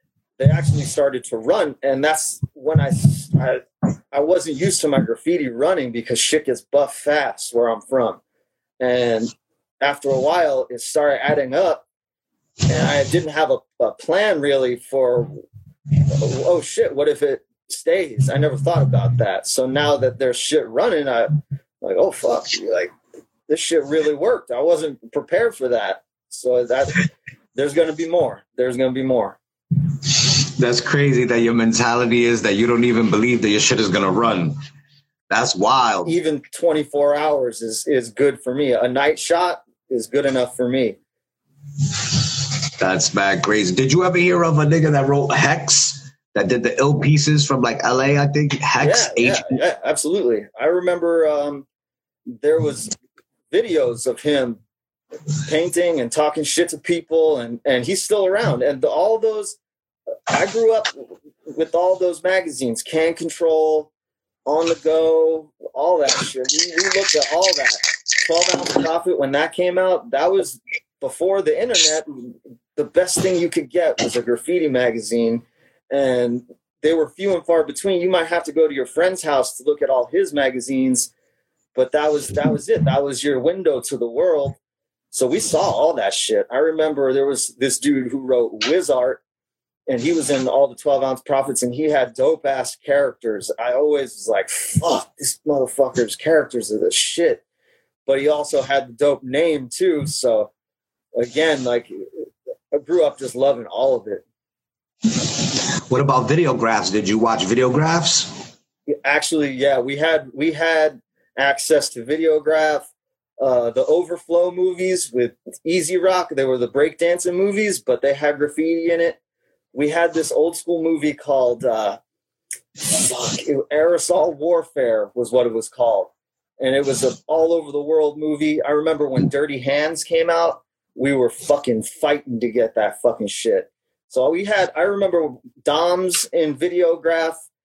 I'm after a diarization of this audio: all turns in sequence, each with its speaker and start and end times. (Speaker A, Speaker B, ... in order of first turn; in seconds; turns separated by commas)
Speaker A: 0.4-8.2, Speaker A: 8.8-11.8, Speaker A: 12.7-15.4, Speaker A: 16.1-22.9, Speaker A: 23.5-29.4, Speaker B: 30.6-34.6, Speaker B: 35.3-36.1, Speaker A: 36.0-41.0, Speaker B: 42.8-49.6, Speaker A: 48.8-51.6, Speaker A: 52.3-52.9, Speaker A: 53.5-54.6, Speaker A: 55.5-59.6, Speaker A: 60.3-63.9, Speaker A: 64.5-81.1, Speaker A: 81.7-84.6, Speaker A: 85.1-89.2, Speaker A: 89.9-97.4, Speaker A: 98.0-100.5, Speaker A: 101.2-104.2, Speaker B: 105.9-108.3, Speaker A: 109.0-112.9, Speaker A: 113.4-119.2, Speaker A: 119.7-122.0, Speaker A: 122.8-137.4